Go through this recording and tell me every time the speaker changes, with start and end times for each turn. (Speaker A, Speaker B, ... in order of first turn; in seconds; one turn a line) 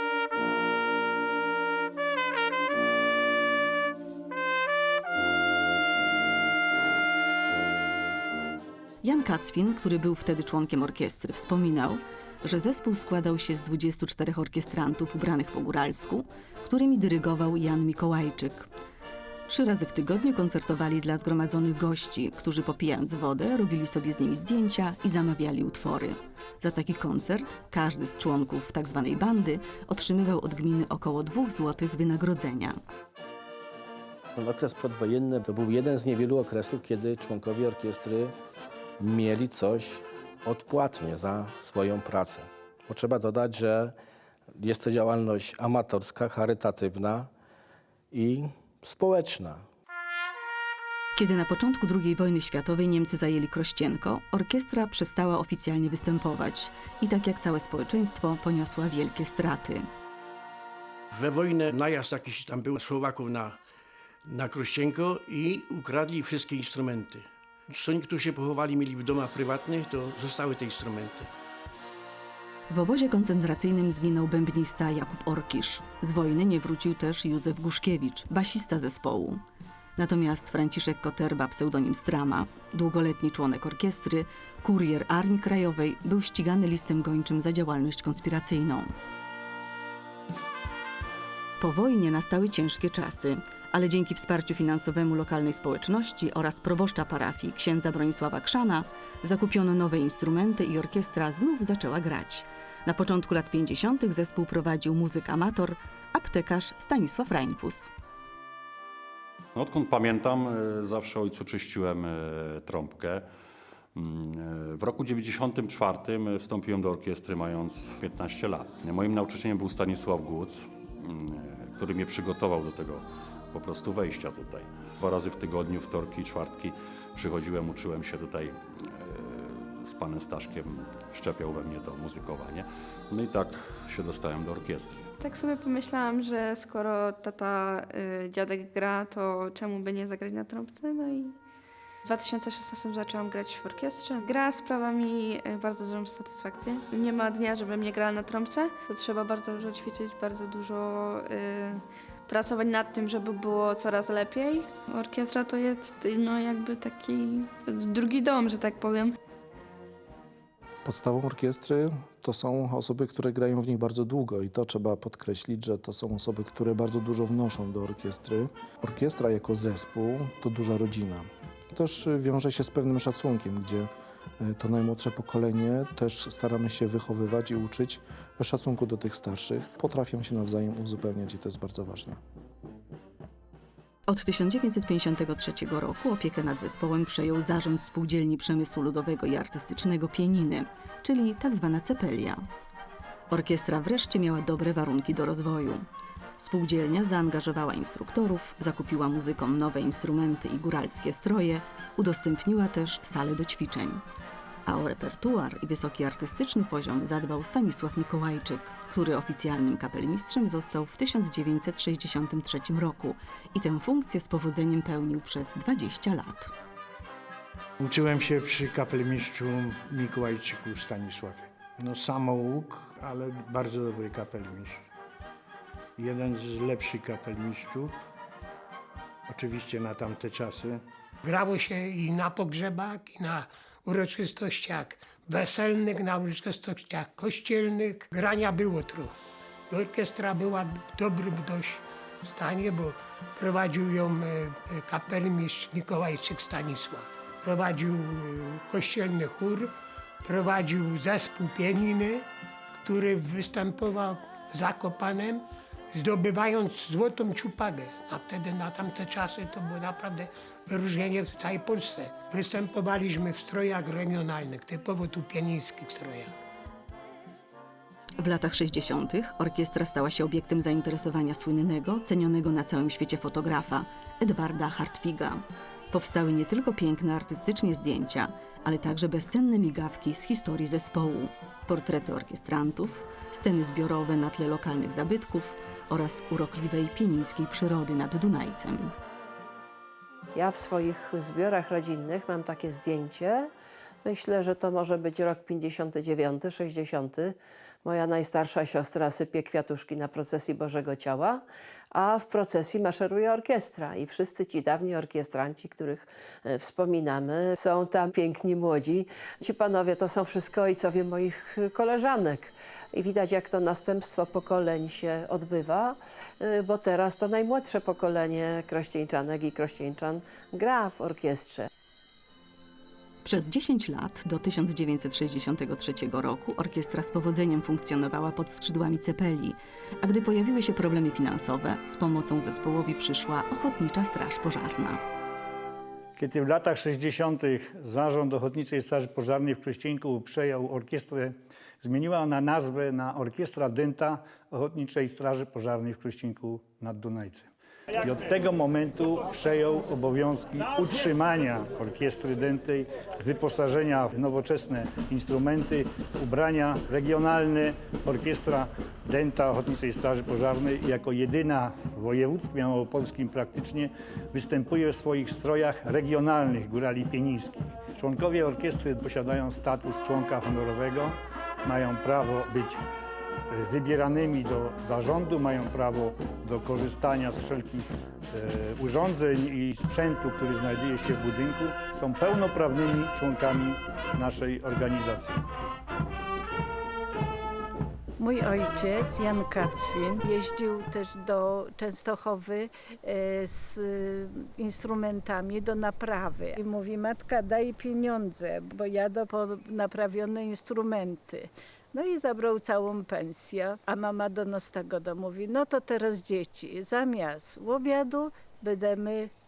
Speaker A: 9.0-18.7
Speaker A: 19.5-32.8
Speaker B: 34.4-38.3
Speaker B: 39.0-44.0
Speaker B: 44.6-47.3
Speaker B: 48.1-49.6
Speaker A: 51.2-59.9
Speaker C: 61.1-63.6
Speaker C: 64.3-71.3
Speaker A: 72.7-79.4
Speaker A: 80.0-88.9
Speaker A: 91.6-107.9
Speaker D: 109.5-113.2
Speaker D: 114.0-135.1
Speaker E: 135.5-141.2
Speaker E: 142.2-151.8
Speaker E: 152.3-159.1
Speaker F: 160.8-173.9
Speaker F: 174.4-182.2
Speaker A: 184.1-192.4
Speaker A: 193.3-195.8
Speaker A: 196.4-204.0
Speaker A: 204.7-216.5
Speaker G: 217.8-224.9
Speaker G: 226.0-228.1
Speaker G: 229.3-230.8
Speaker H: 231.2-239.1
Speaker H: 239.7-249.7
Speaker H: 250.2-252.3
Speaker H: 252.8-266.3
Speaker A: 268.2-288.9
Speaker I: 290.4-293.5
Speaker I: 294.0-321.7
Speaker A: 323.2-335.0
Speaker J: 336.2-372.9
Speaker J: 373.5-385.4
Speaker K: 388.2-409.3